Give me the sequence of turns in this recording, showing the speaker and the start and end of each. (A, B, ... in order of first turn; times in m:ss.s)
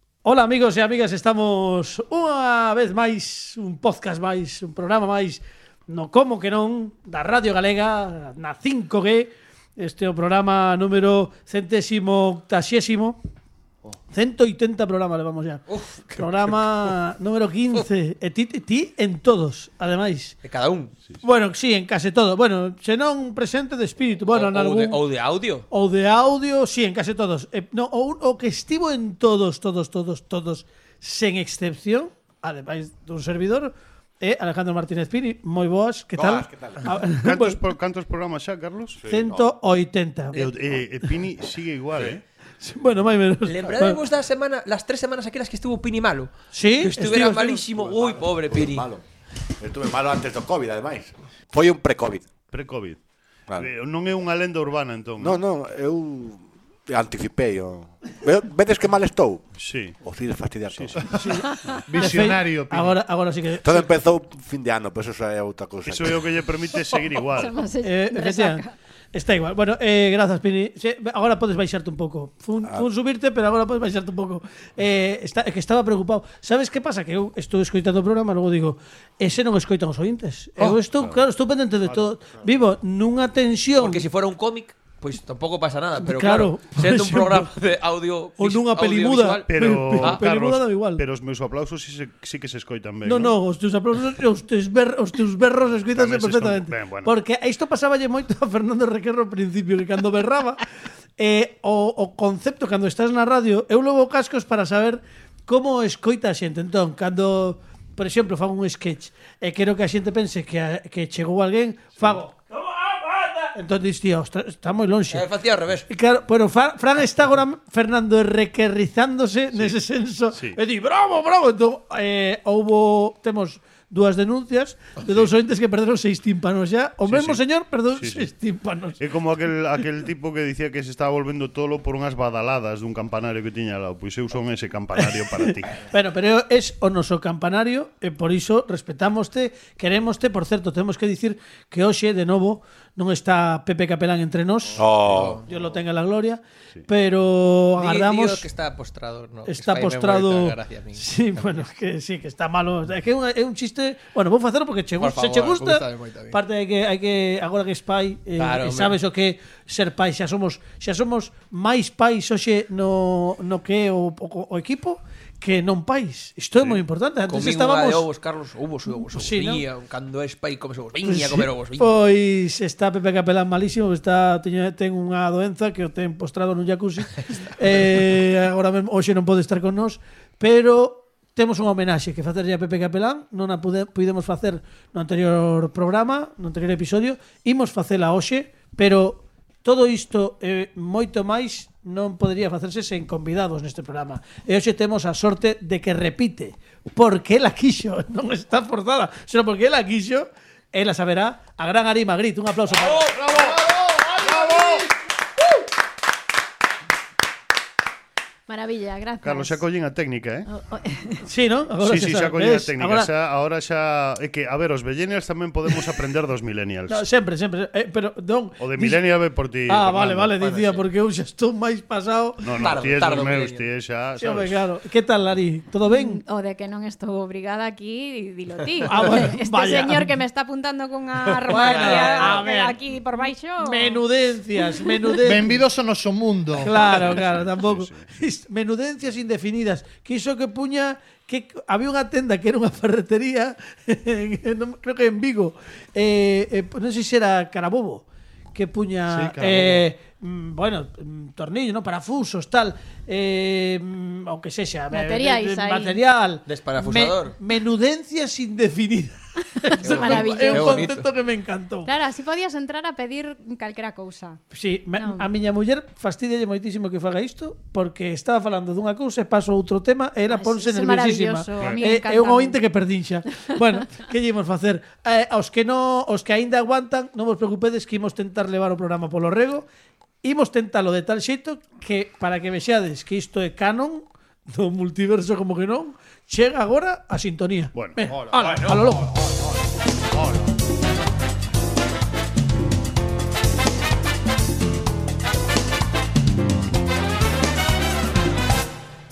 0:00.2-0:13.2 A
0:14.1-0:20.4 A
0:15.7-0:16.9 B
0:20.4-0:20.9 B
0:21.2-0:25.0 A
0:24.3-0:25.6 B
0:25.7-0:37.6 A
0:36.1-0:36.8 C
0:37.0-0:39.0 D
0:39.0-0:39.5 C
0:39.1-0:40.5 A
0:40.3-0:42.2 D
0:42.6-0:44.0 A
0:43.4-0:48.9 B
0:46.5-0:47.6 A
0:47.7-0:49.0 C
0:49.6-0:52.3 C
0:52.5-0:53.0 D
0:53.5-0:55.4 D
0:55.2-0:59.5 C
0:59.6-1:00.0 D
1:00.0-1:01.1 C
1:00.7-1:01.0 D
1:01.2-1:03.9 A
1:01.8-1:03.0 E
1:03.6-1:06.2 C
1:05.8-1:07.6 D
1:07.3-1:08.7 F
1:07.8-1:24.0 A
1:20.6-1:21.2 D
1:23.8-1:29.5 B
1:26.0-1:27.5 A
1:28.4-1:31.0 A
1:29.5-1:33.4 D
1:33.0-1:40.6 A
1:35.9-1:37.1 D
1:41.2-1:55.2 A
1:55.1-1:55.8 B
1:55.9-2:09.0 A
2:07.0-2:07.4 D
2:08.0-2:08.3 D
2:09.0-2:15.7 D
2:15.0-2:28.5 A
2:24.8-2:25.4 C
2:25.1-2:25.4 B
2:27.8-2:31.6 B
2:29.4-2:48.0 A
2:35.0-2:36.4 B
2:38.4-2:38.9 B
2:46.6-2:46.8 D
2:47.3-2:51.9 B
2:49.0-2:49.6 A
2:51.0-3:23.1 A
3:22.7-3:23.4 B
3:23.1-3:24.9 E
3:24.3-3:24.8 D
3:28.5-3:29.6 F
3:29.2-3:30.5 D
3:30.5-3:31.2 F
3:31.2-3:33.1 A
3:31.8-3:37.0 D
3:36.9-3:39.0 A
3:38.6-3:40.4 D
3:39.7-3:42.5 A
3:42.4-3:44.6 D
3:42.6-3:43.6 B
3:44.2-3:46.2 A
3:45.9-3:54.0 F
3:48.8-3:50.1 A
3:51.4-3:52.4 B
3:51.5-3:52.8 A
3:53.6-3:55.6 A
3:54.8-3:55.1 F
3:55.2-3:56.7 E
3:56.6-4:21.9 A
3:56.7-3:58.0 D
4:09.1-4:09.9 E
4:14.9-4:16.0 F
4:16.4-4:17.3 B
4:19.7-4:20.9 F
4:19.8-4:21.1 B
4:21.8-4:24.4 F
4:24.5-4:39.6 A
4:25.0-4:25.3 F
4:30.3-4:32.6 F
4:40.2-4:49.1 A